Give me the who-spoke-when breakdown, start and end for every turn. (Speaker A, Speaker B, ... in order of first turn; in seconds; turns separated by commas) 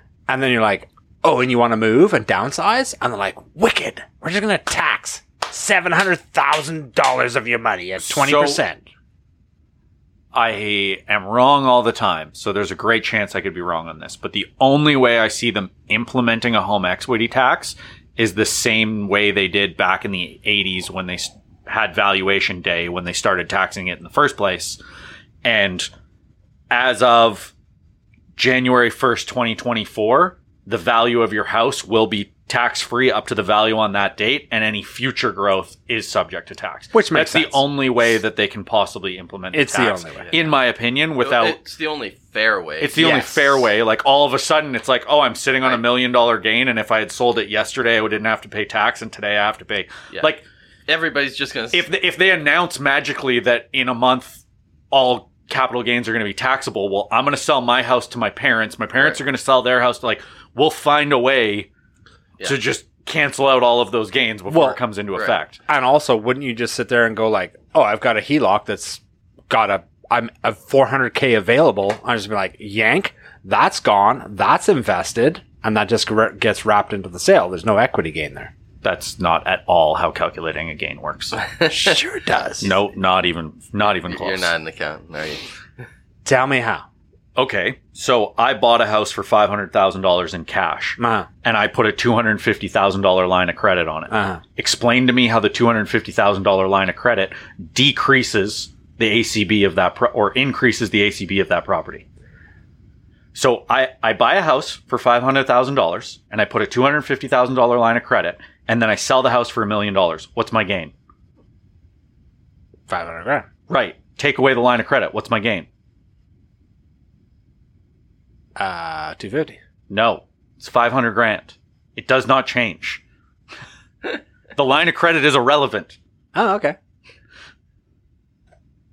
Speaker A: 0.3-8.8, Speaker B: 8.0-8.6, Speaker B: 10.3-24.8, Speaker B: 25.4-25.9, Speaker B: 26.7-27.5, Speaker B: 28.4-41.6, Speaker A: 36.9-37.7, Speaker A: 39.5-40.3, Speaker C: 40.2-40.5, Speaker C: 41.2-43.0, Speaker B: 42.8-50.4, Speaker A: 43.0-43.7, Speaker C: 50.9-51.9, Speaker B: 51.7-61.7, Speaker B: 62.4-65.6, Speaker A: 64.5-64.8, Speaker A: 65.7-78.5, Speaker B: 78.8-81.4, Speaker C: 81.4-81.7, Speaker A: 81.7-82.7, Speaker B: 82.6-84.5, Speaker C: 84.1-85.4, Speaker A: 86.2-86.8, Speaker B: 87.4-102.0, Speaker A: 91.0-91.3, Speaker A: 94.1-94.4, Speaker B: 103.3-110.9, Speaker A: 112.9-113.5, Speaker B: 113.7-115.7, Speaker A: 118.6-119.6, Speaker B: 119.9-123.0, Speaker B: 124.5-126.0, Speaker A: 126.3-126.8